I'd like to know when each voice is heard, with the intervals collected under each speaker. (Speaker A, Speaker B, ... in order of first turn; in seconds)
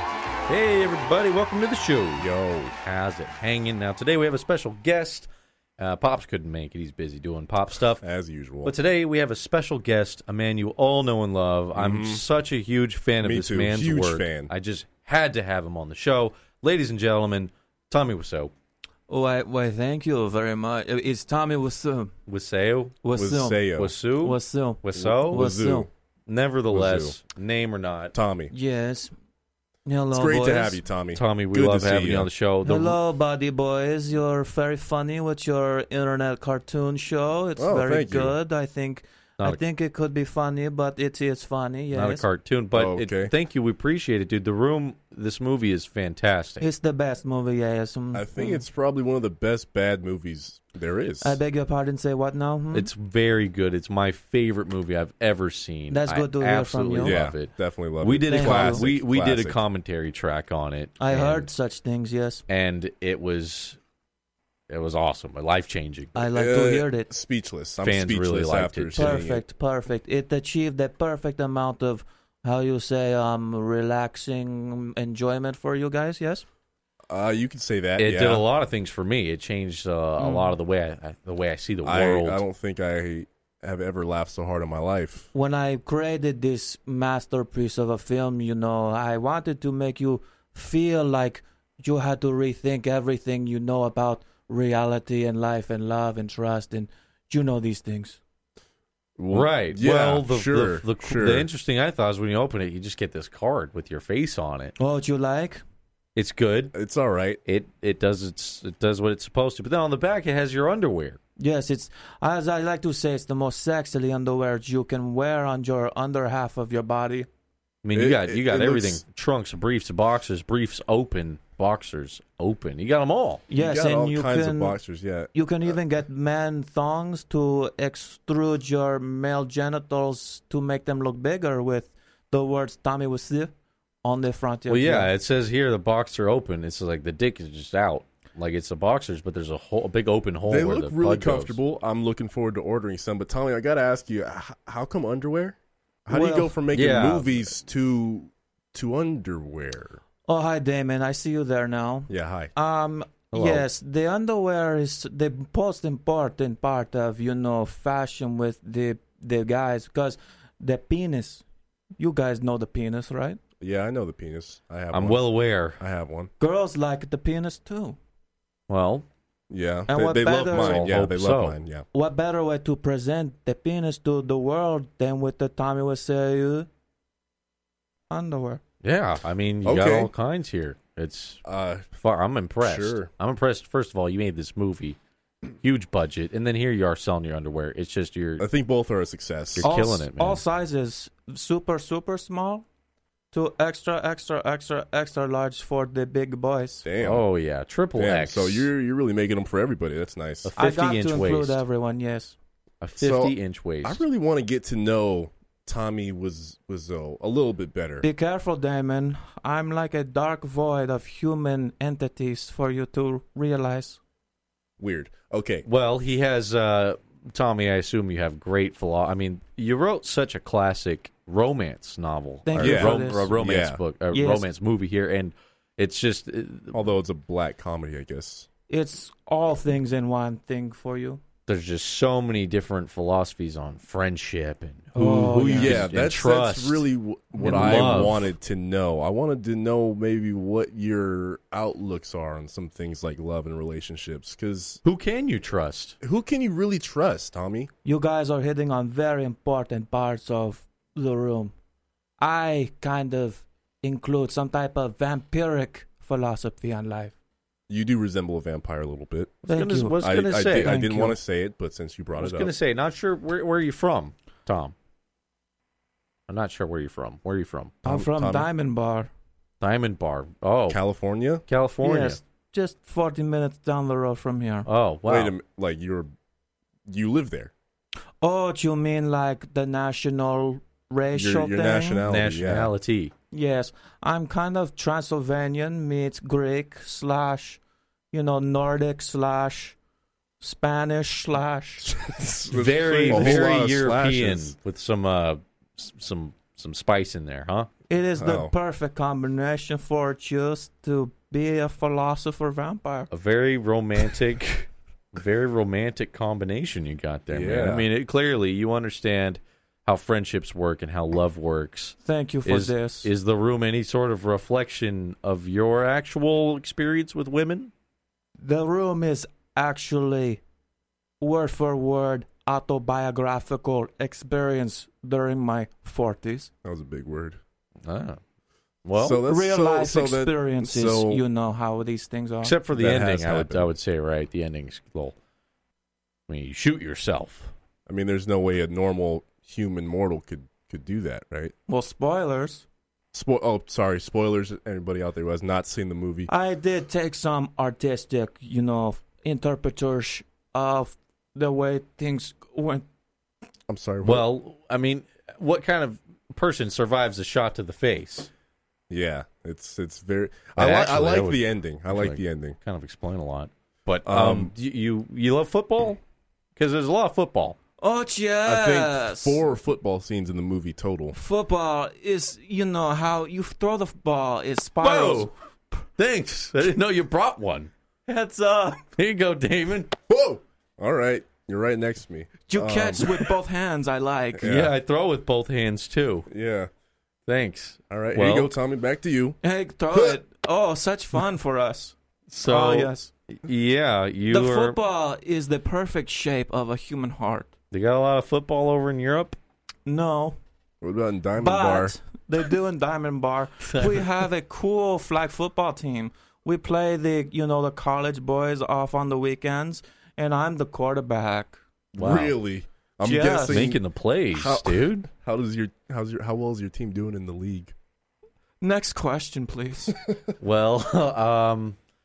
Speaker A: 0.5-5.3, 5.8-8.0, 8.6-18.5, 22.3-23.0, 23.8-25.4, 26.3-28.1, 31.1-33.0, 41.9-46.6, 52.7-61.5, 62.5-63.8, 64.7-66.2, 67.8-69.2, 78.0-82.4, 99.3-104.7, 106.2-106.7, 107.4-111.2, 117.8-123.4, 134.7-141.6, 146.7-147.3, 153.3-153.7, 164.9-165.8, 168.7-169.1, 170.2-171.6, 178.8-181.4, 181.9-185.0, 185.6-188.4, 189.5-190.4, 197.0-198.7, 200.4-201.6, 202.8-204.0, 215.6-226.9, 231.5-238.3, 244.8-245.9, 259.4-260.8, 262.2-264.7, 266.3-267.8, 269.6-270.8, 271.5-272.2, 274.6-275.4, 282.0-283.1, 292.5-297.7, 303.1-317.7, 327.8-328.2, 328.9-329.2, 332.4-335.1, 336.3-337.5, 354.0-358.3, 360.6-366.0, 366.6-367.6, 374.8-375.3, 376.0-377.7, 378.9-379.9, 384.4-386.3, 387.3-388.5, 392.3-394.8, 397.7-399.4, 403.6-404.1, 411.9-412.4, 413.5-415.1, 420.4-421.8
Speaker B: 2.2-2.7, 8.0-8.7, 11.8-12.2, 13.2-14.5, 23.1-23.9, 25.0-25.9, 26.7-27.1, 28.1-28.5, 30.1-32.3, 37.6-38.4, 42.7-43.3, 48.1-51.4, 57.0-59.6, 66.3-69.4, 77.1-78.5, 81.8-85.3, 99.2-101.5, 106.7-107.4, 117.9-119.0, 123.5-125.8, 140.5-150.0, 152.1-152.5, 163.6-166.3, 169.5-171.8, 179.6-180.1, 181.4-181.9, 182.6-183.1, 188.4-189.7, 196.8-197.2, 197.9-200.5, 203.0-208.1, 214.8-215.6, 222.6-223.8, 226.7-228.5, 235.5-244.8, 246.0-247.7, 257.7-259.4, 260.0-262.5, 267.8-268.5, 270.7-271.4, 275.1-276.1, 276.9-277.5, 281.1-282.7, 291.9-294.5, 298.2-298.5, 307.3-307.9, 326.6-327.4, 328.9-331.2, 332.7-333.7, 337.9-341.5, 343.1-346.3, 353.7-354.3, 358.9-362.6, 364.0-364.5, 368.4-371.1, 380.1-383.3, 384.4-384.8, 386.3-386.7, 387.9-389.4, 400.8-401.9, 411.9-413.8, 414.3-417.7, 420.0-420.3
Speaker C: 19.1-22.1, 23.0-23.6, 24.2-25.9, 28.5-29.1, 29.9-30.8, 32.6-42.2, 46.6-48.6, 51.2-52.9, 55.9-57.2, 58.2-58.9, 61.0-62.4, 66.1-67.1, 68.9-76.4, 80.2-80.6, 85.3-98.2, 104.8-105.6, 111.4-117.3, 123.5-124.8, 125.3-133.5, 134.0-135.1, 146.1-146.5, 150.2-161.4, 162.0-163.4, 166.4-168.0, 169.9-170.8, 171.9-176.7, 178.1-178.6, 189.6-192.6, 193.3-196.8, 200.6-202.4, 208.0-214.0, 222.4-223.3, 224.1-224.5, 228.7-231.2, 234.9-235.8, 237.4-238.0, 247.8-251.5, 252.2-257.1, 259.4-260.0, 260.6-261.2, 267.8-269.1, 271.8-274.7, 278.2-282.0, 283.3-287.6, 288.1-289.8, 290.4-291.9, 297.9-303.1, 312.0-313.1, 318.4-320.4, 321.2-326.5, 329.1-332.6, 341.7-342.6, 346.3-352.8, 367.8-369.4, 371.1-375.3, 378.1-378.8, 382.5-384.5, 389.4-393.1, 394.3-397.5, 399.9-400.4, 401.4-411.6, 413.0-413.7, 418.6-419.9